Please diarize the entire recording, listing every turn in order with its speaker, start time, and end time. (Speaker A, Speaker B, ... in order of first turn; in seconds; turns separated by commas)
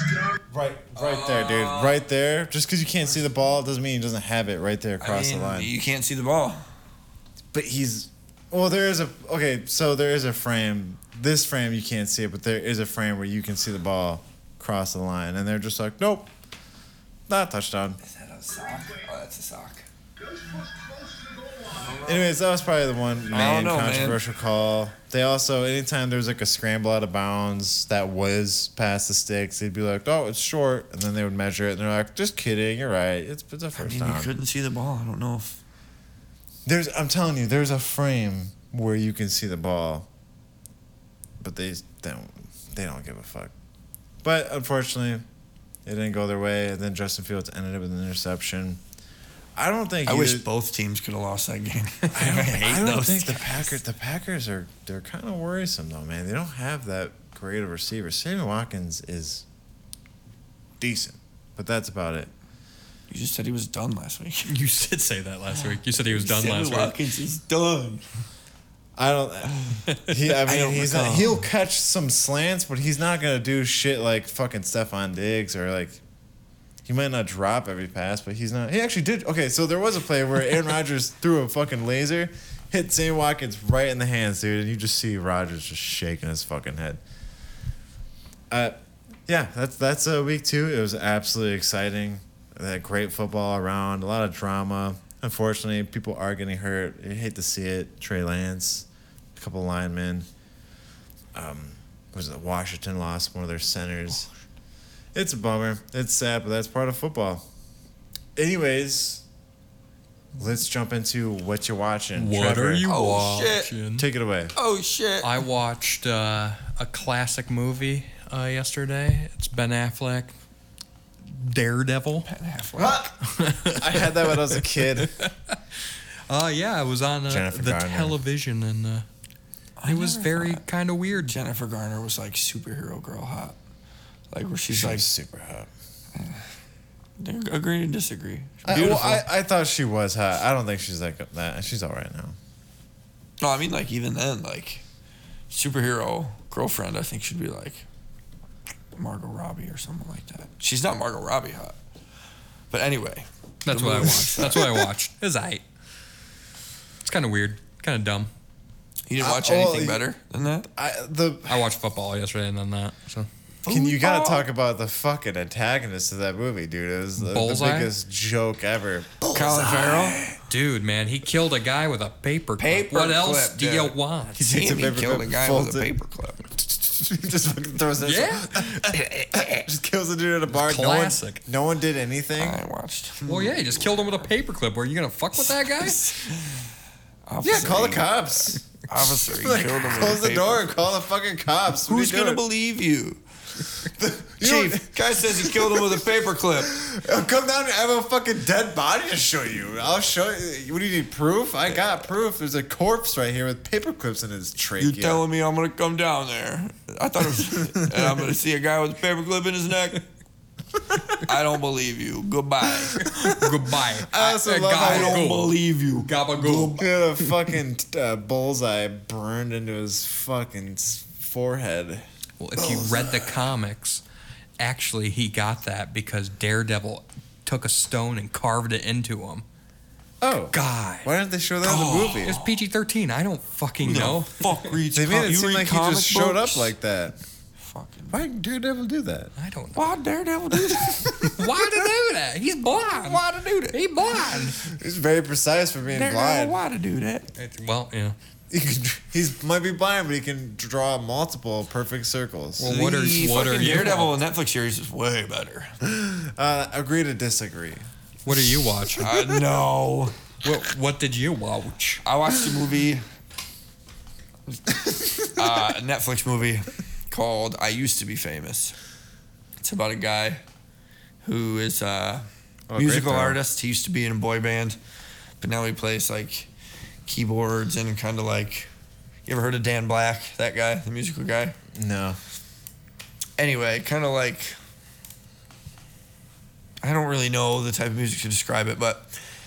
Speaker A: 0.5-5.7, Speaker B: 0.9-2.1, Speaker B: 5.0-6.7, Speaker A: 7.5-16.3, Speaker A: 17.3-18.0, Speaker B: 18.0-19.9, Speaker B: 21.7-22.3, Speaker A: 21.9-34.3, Speaker B: 23.3-24.2, Speaker B: 33.8-35.6, Speaker A: 36.7-40.1, Speaker A: 41.4-43.5, Speaker A: 44.2-45.2, Speaker A: 45.9-48.8, Speaker A: 49.6-50.5, Speaker B: 50.1-53.7, Speaker A: 52.1-59.5, Speaker A: 60.8-62.3, Speaker B: 63.1-64.5, Speaker C: 64.5-67.0, Speaker B: 65.5-68.0, Speaker A: 69.0-76.0, Speaker B: 70.4-71.5, Speaker A: 76.9-87.0, Speaker A: 88.5-100.3, Speaker A: 101.3-104.3, Speaker A: 105.1-107.5, Speaker A: 108.4-109.2, Speaker A: 110.4-112.9, Speaker C: 112.2-114.1, Speaker B: 112.8-113.7, Speaker A: 114.0-114.5, Speaker B: 114.5-115.4, Speaker C: 115.2-120.3, Speaker C: 121.3-122.3, Speaker B: 122.2-123.0, Speaker A: 122.8-125.1, Speaker C: 123.2-125.6, Speaker C: 126.3-129.1, Speaker A: 127.3-128.2, Speaker B: 129.8-130.6, Speaker C: 129.9-131.4, Speaker B: 131.2-133.6, Speaker B: 134.3-135.1, Speaker A: 134.7-135.7, Speaker B: 136.2-136.5, Speaker B: 137.2-139.3, Speaker A: 138.6-142.3, Speaker B: 143.4-144.8, Speaker B: 145.5-147.9, Speaker B: 148.9-151.8, Speaker B: 152.7-154.9, Speaker C: 153.7-155.6, Speaker C: 157.0-158.3, Speaker B: 159.1-160.7, Speaker A: 159.2-160.1, Speaker A: 160.7-161.7, Speaker C: 161.5-163.3, Speaker B: 163.7-164.5, Speaker A: 163.7-170.4, Speaker C: 167.2-167.9, Speaker B: 169.3-170.2, Speaker C: 170.5-174.4, Speaker B: 172.6-176.4, Speaker A: 174.4-175.9, Speaker A: 176.6-182.6, Speaker C: 178.0-179.6, Speaker C: 180.5-181.4, Speaker B: 182.3-184.3, Speaker C: 183.3-186.1, Speaker B: 185.4-186.7, Speaker B: 187.3-190.7, Speaker A: 187.4-192.4, Speaker B: 191.9-193.2, Speaker A: 193.9-196.0, Speaker B: 194.4-196.8, Speaker A: 196.6-205.2, Speaker B: 204.8-210.0, Speaker B: 211.2-213.0, Speaker A: 212.9-213.5, Speaker C: 213.0-216.9, Speaker A: 214.0-215.2, Speaker B: 214.8-216.9, Speaker A: 216.8-222.1, Speaker C: 222.4-224.0, Speaker C: 224.6-229.4, Speaker A: 230.2-232.4, Speaker C: 230.5-231.1, Speaker B: 231.6-232.6, Speaker C: 232.2-234.7, Speaker B: 233.8-236.8, Speaker A: 234.9-237.2, Speaker B: 237.6-238.2, Speaker A: 238.1-239.3, Speaker C: 239.4-239.9, Speaker B: 239.8-241.4, Speaker A: 240.9-241.3, Speaker C: 241.2-244.6, Speaker B: 242.8-243.8, Speaker A: 244.6-246.6, Speaker B: 245.9-247.3, Speaker C: 247.4-248.2, Speaker A: 248.5-252.7, Speaker C: 252.6-254.2, Speaker B: 252.6-255.7, Speaker A: 255.8-258.4, Speaker C: 258.2-259.3, Speaker B: 259.0-260.2, Speaker C: 260.4-262.0, Speaker B: 262.0-263.1, Speaker B: 264.5-268.8, Speaker B: 269.6-270.4, Speaker B: 271.2-274.8, Speaker A: 272.7-273.4, Speaker B: 275.4-276.5, Speaker B: 277.1-278.7, Speaker B: 279.3-281.6, Speaker A: 281.8-282.2, Speaker B: 283.4-284.6, Speaker B: 286.8-289.2